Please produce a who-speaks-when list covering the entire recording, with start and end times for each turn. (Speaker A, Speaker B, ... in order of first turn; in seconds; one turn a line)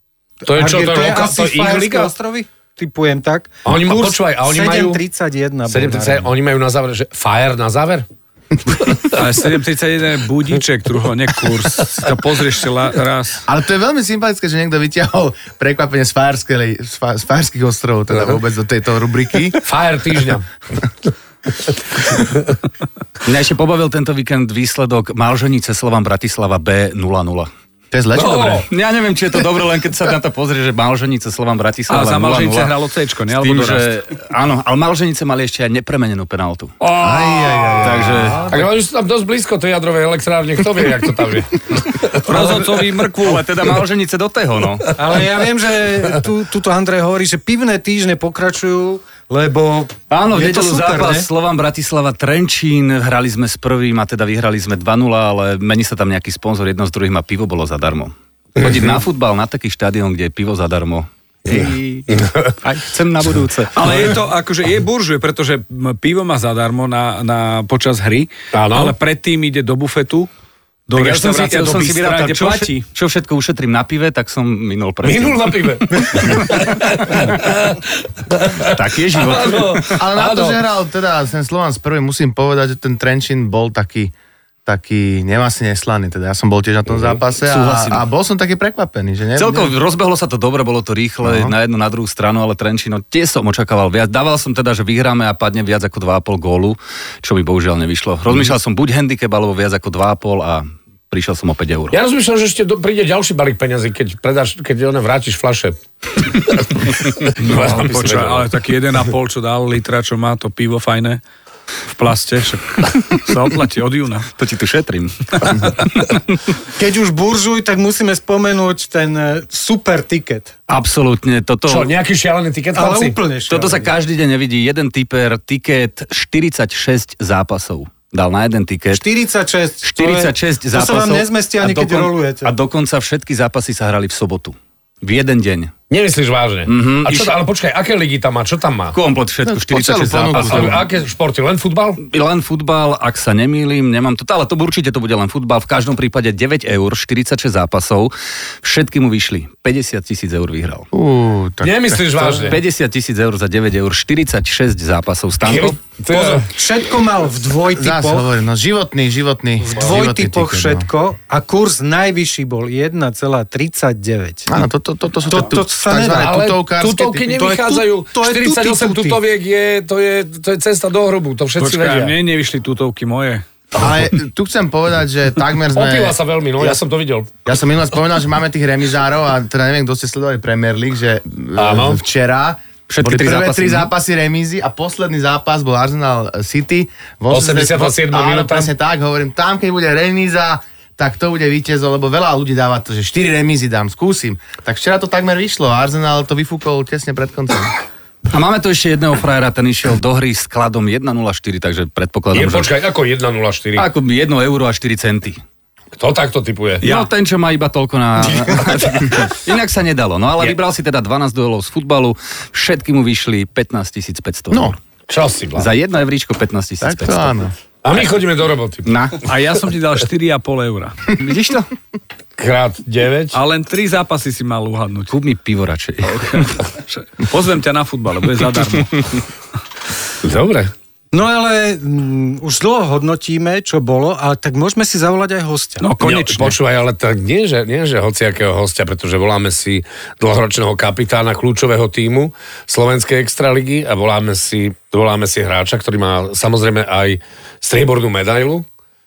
Speaker A: 0.5-2.1
Speaker B: 0.5-6.3
Speaker A: 3.6-5.0
Speaker A: 5.7-8.1
Speaker A: 8.7-9.1
Speaker C: 9.1-13.4
Speaker D: 13.5-19.6
Speaker A: 19.6-20.5
Speaker E: 23.3-27.5
Speaker D: 27.9-28.6
Speaker A: 28.1-28.6
Speaker E: 28.7-32.7
Speaker C: 31.9-33.9
Speaker E: 33.3-36.7
Speaker C: 36.8-38.0
Speaker D: 37.0-38.6
Speaker E: 37.8-38.5
Speaker A: 38.5-42.7
Speaker C: 42.2-43.4
Speaker E: 42.8-44.9
Speaker B: 45.0-51.3
Speaker E: 50.1-62.0
Speaker A: 58.6-59.0
Speaker E: 62.6-63.8
Speaker C: 63.8-70.3
Speaker A: 68.5-69.0
Speaker C: 70.9-72.9
Speaker A: 71.0-71.7
Speaker E: 71.6-75.5
Speaker A: 75.0-77.8
Speaker A: 78.3-80.6
Speaker E: 78.7-80.0
Speaker D: 80.0-84.1
Speaker D: 84.7-89.8
Speaker E: 87.5-88.0
Speaker E: 89.4-102.0
Speaker D: 91.2-91.5
Speaker A: 101.9-108.5
Speaker C: 107.4-111.2
Speaker C: 111.9-114.3
Speaker E: 114.3-115.8
Speaker B: 116.8-120.5
Speaker E: 120.7-121.9
Speaker A: 121.7-123.2
Speaker B: 122.7-123.9
Speaker E: 123.5-129.0
Speaker B: 128.9-132.5
Speaker E: 129.8-135.7
Speaker A: 135.9-139.0
Speaker E: 136.7-137.4
Speaker E: 138.9-140.8
Speaker D: 139.4-140.8
Speaker A: 140.2-142.0
Speaker E: 142.0-150.8
Speaker D: 150.9-152.6
Speaker A: 151.6-152.6
Speaker E: 152.5-155.8
Speaker A: 155.4-156.5
Speaker B: 156.1-158.3
Speaker D: 157.8-160.9
Speaker B: 159.6-164.5
Speaker D: 164.5-167.3
Speaker B: 165.3-166.4
Speaker A: 166.2-172.2
Speaker B: 167.3-169.2
Speaker C: 171.6-173.4
Speaker D: 173.8-176.8
Speaker A: 175.8-177.3
Speaker D: 177.4-197.8
Speaker A: 181.6-182.0
Speaker E: 182.9-183.9
Speaker A: 187.3-188.7
Speaker E: 198.3-202.8
Speaker A: 202.3-203.9
Speaker E: 203.8-205.4
Speaker A: 206.0-206.9
Speaker E: 206.8-214.7
Speaker A: 208.8-209.2
Speaker D: 214.5-214.8
Speaker A: 215.1-215.7
Speaker E: 215.6-217.4
Speaker D: 216.8-217.5
Speaker A: 217.8-218.9
Speaker E: 218.8-219.2
Speaker C: 219.2-221.1
Speaker E: 221.2-221.7
Speaker A: 222.4-223.4
Speaker C: 223.3-225.2
Speaker E: 225.1-226.5
Speaker C: 226.1-229.2
Speaker A: 230.2-230.7
Speaker B: 231.1-235.9
Speaker C: 235.8-236.5
Speaker A: 236.0-248.7